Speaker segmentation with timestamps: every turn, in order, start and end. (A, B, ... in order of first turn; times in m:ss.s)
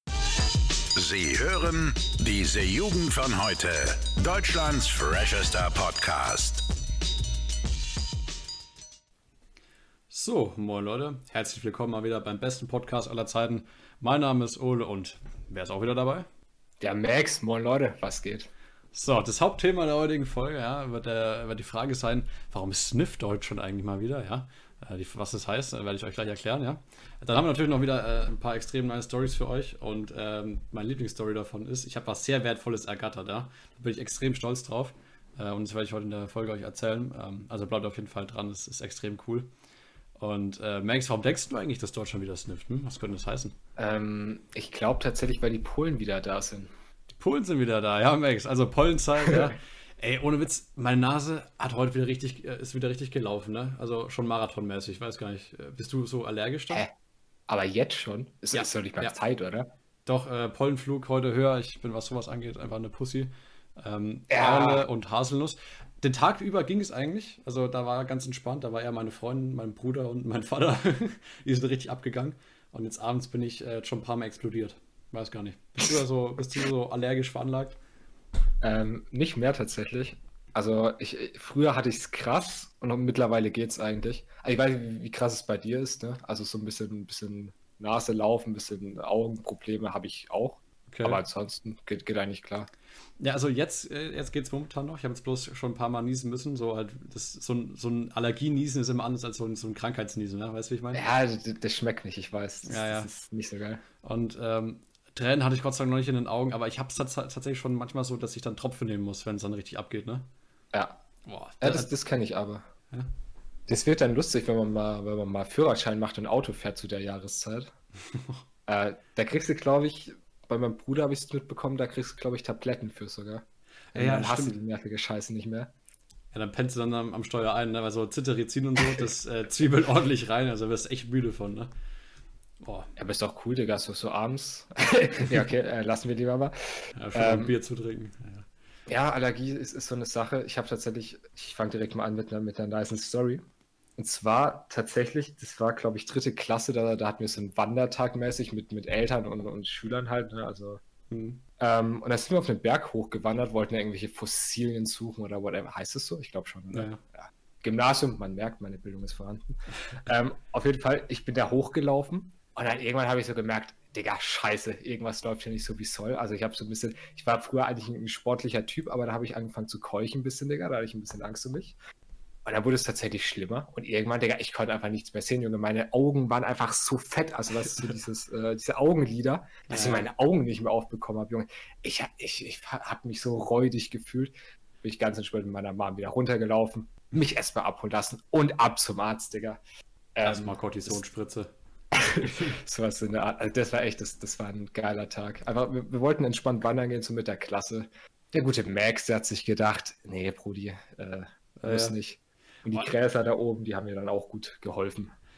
0:01.0-0:06.7 A
0:10.1-0:16.3 B
0:16.8-0:18.5 C
0:18.9-0:39.5 B
0:40.2-0:43.6 B
0:43.8-0:46.7 C
0:47.2-0:56.8 B
0:57.5-0:59.7 C
0:58.5-0:59.2 B
1:00.1-1:17.8 B
1:04.3-1:04.8 C
1:18.6-1:32.7 C
1:30.9-1:31.2 B
1:33.2-1:41.0 B
1:40.9-1:43.8 C
1:42.6-1:43.1 B
1:44.0-1:50.3 B
1:50.7-1:51.0 C
1:51.2-1:51.9 B
1:51.6-1:52.7 C
1:53.7-1:57.7 C
1:58.1-1:58.4 B
1:58.7-2:05.7 C
2:03.9-2:04.6 B
2:06.3-2:11.7 B
2:12.6-2:12.9 B
2:13.0-2:17.5 C
2:17.0-2:18.5 B
2:18.9-2:23.4 C
2:24.0-2:30.8 C
2:31.1-2:31.4 B
2:31.6-2:51.8 C
2:36.7-2:37.0 B
2:52.4-3:09.6 C
2:59.7-3:00.1 B
3:10.2-3:11.0 C
3:10.2-3:11.5 B
3:11.9-3:25.1 C
3:21.6-3:22.0 B